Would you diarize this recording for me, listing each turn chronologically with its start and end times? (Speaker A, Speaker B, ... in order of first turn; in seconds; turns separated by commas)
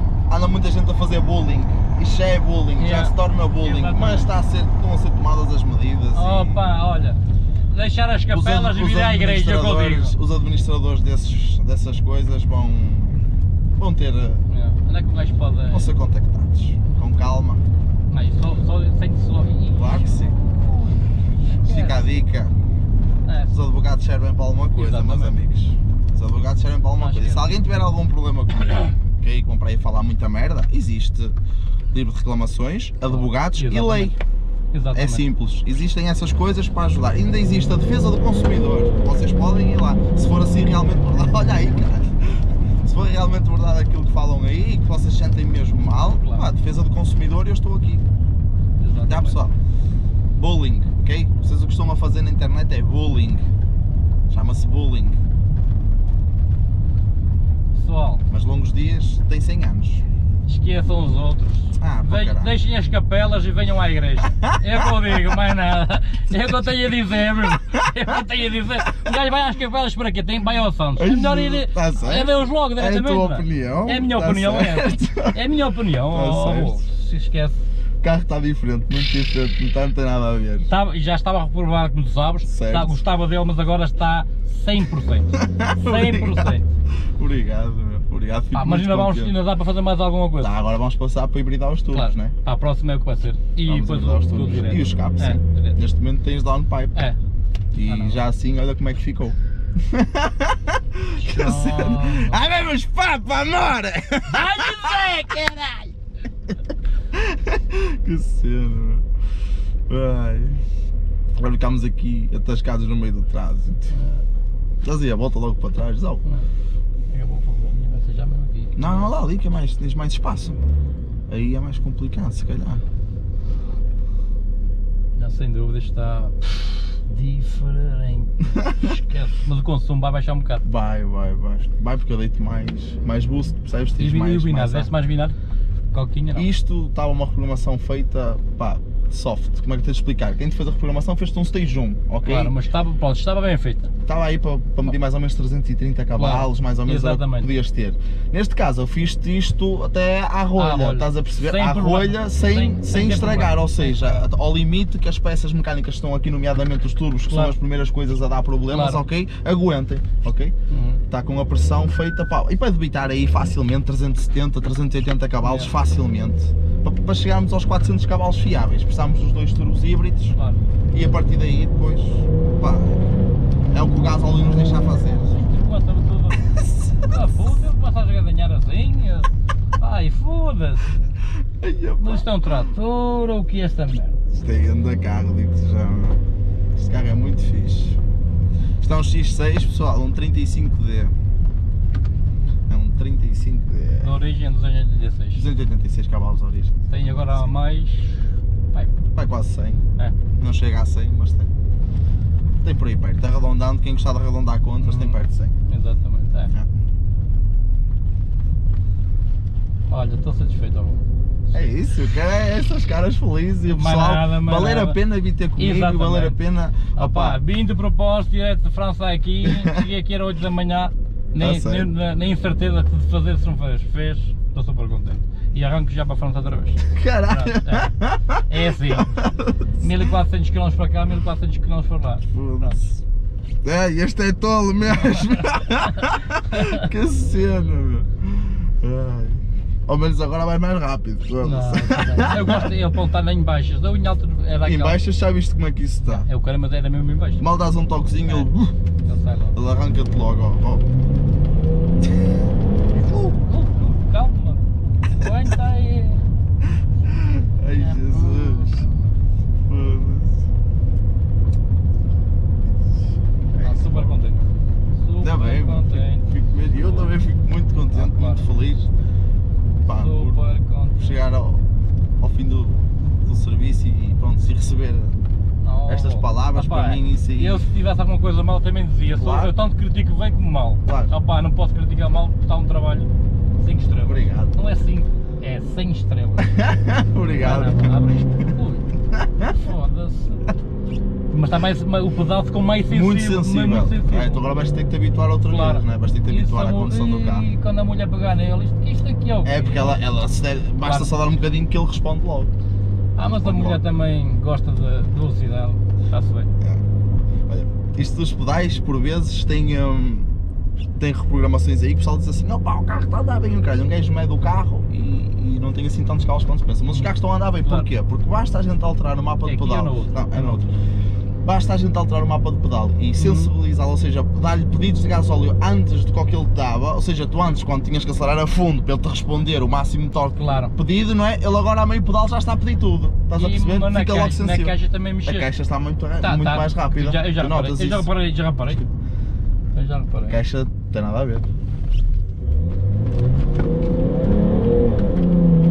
Speaker A: 0.3-6.6, Speaker B: 2.8-4.3, Speaker B: 6.1-10.2, Speaker A: 8.3-13.2, Speaker A: 13.8-14.4, Speaker B: 14.5-15.9, Speaker A: 15.7-17.6, Speaker B: 18.1-22.1, Speaker A: 19.8-20.4, Speaker A: 21.5-22.5, Speaker B: 23.2-23.5, Speaker A: 23.5-31.3, Speaker B: 24.7-25.4, Speaker B: 27.0-27.6, Speaker A: 31.9-34.2, Speaker B: 33.0-34.1, Speaker B: 34.7-35.2, Speaker A: 34.9-48.0, Speaker B: 46.0-46.5, Speaker B: 48.8-49.4, Speaker A: 49.1-49.5, Speaker A: 50.4-53.4, Speaker A: 54.3-55.2, Speaker B: 57.7-58.2, Speaker A: 58.3-60.0, Speaker B: 60.5-77.6, Speaker A: 61.8-62.5, Speaker A: 71.0-75.4, Speaker A: 76.1-76.8, Speaker A: 78.0-80.7, Speaker B: 80.7-86.7, Speaker A: 82.5-83.0, Speaker A: 85.3-86.5, Speaker A: 87.2-89.3, Speaker B: 88.5-90.6, Speaker A: 90.4-92.3, Speaker B: 91.9-95.8, Speaker A: 93.7-97.0, Speaker A: 97.7-105.2, Speaker B: 97.9-98.2, Speaker B: 101.2-102.4, Speaker B: 104.3-105.9, Speaker A: 107.1-109.0, Speaker A: 109.9-110.7, Speaker A: 111.3-113.9, Speaker B: 113.9-114.2, Speaker A: 114.8-116.2, Speaker B: 117.1-119.2, Speaker A: 118.8-120.6, Speaker A: 121.3-122.8, Speaker B: 125.2-130.6, Speaker A: 128.6-128.9, Speaker A: 130.7-134.9, Speaker B: 134.0-135.4, Speaker B: 135.9-136.5, Speaker A: 136.3-142.6, Speaker B: 142.2-143.9, Speaker A: 144.1-160.6, Speaker B: 146.2-147.5, Speaker B: 150.6-154.3, Speaker B: 157.3-157.6, Speaker B: 158.7-159.0, Speaker B: 160.7-161.0, Speaker A: 161.1-170.4, Speaker B: 165.4-165.7, Speaker B: 170.4-170.6, Speaker A: 170.9-173.0, Speaker A: 173.7-175.3, Speaker B: 175.3-181.1, Speaker A: 176.3-177.4, Speaker A: 181.6-182.3, Speaker B: 182.0-184.2, Speaker A: 184.3-186.2, Speaker A: 186.8-188.0, Speaker A: 188.8-191.1, Speaker A: 192.7-194.1, Speaker B: 194.0-195.4, Speaker A: 195.3-197.5, Speaker B: 196.9-199.0, Speaker A: 199.2-199.8, Speaker A: 200.4-201.5, Speaker A: 202.6-205.6, Speaker B: 204.8-206.5, Speaker B: 209.9-211.1, Speaker A: 211.5-217.4, Speaker B: 213.7-215.0, Speaker B: 215.6-216.4, Speaker B: 216.9-227.9, Speaker A: 219.4-219.9, Speaker A: 221.3-221.9, Speaker A: 226.8-229.8, Speaker B: 228.5-229.2, Speaker B: 229.8-232.8, Speaker A: 232.3-233.0, Speaker A: 233.6-242.7, Speaker B: 234.9-236.8, Speaker B: 241.4-245.0, Speaker A: 244.6-246.3, Speaker B: 246.1-247.5, Speaker A: 247.4-248.8, Speaker B: 248.2-248.5, Speaker B: 249.1-249.6, Speaker A: 249.5-250.9, Speaker A: 253.0-253.3, Speaker B: 253.2-256.2, Speaker A: 257.1-258.9, Speaker B: 257.7-259.1, Speaker A: 259.7-260.4, Speaker A: 263.4-264.2, Speaker B: 263.6-267.1, Speaker A: 265.2-268.9, Speaker B: 267.9-268.8, Speaker A: 269.8-270.4, Speaker B: 269.9-271.2, Speaker A: 271.0-271.6, Speaker A: 272.2-275.2, Speaker B: 275.6-286.6, Speaker A: 275.9-277.6, Speaker A: 279.1-279.5, Speaker A: 280.8-281.1, Speaker A: 284.0-284.6, Speaker A: 286.4-288.5, Speaker B: 287.4-288.9, Speaker A: 289.1-289.6, Speaker B: 289.5-290.6, Speaker B: 291.3-294.4, Speaker A: 292.9-297.4, Speaker B: 295.5-300.1, Speaker A: 299.4-302.5, Speaker B: 300.8-301.1, Speaker B: 303.2-306.5, Speaker A: 303.2-303.8, Speaker A: 307.5-310.3, Speaker A: 311.0-320.7, Speaker B: 316.9-317.9, Speaker B: 319.4-320.6, Speaker A: 321.4-338.1, Speaker B: 323.2-323.5, Speaker B: 330.4-330.7, Speaker B: 333.3-335.5, Speaker B: 336.2-338.9, Speaker B: 339.7-340.4, Speaker A: 340.3-341.5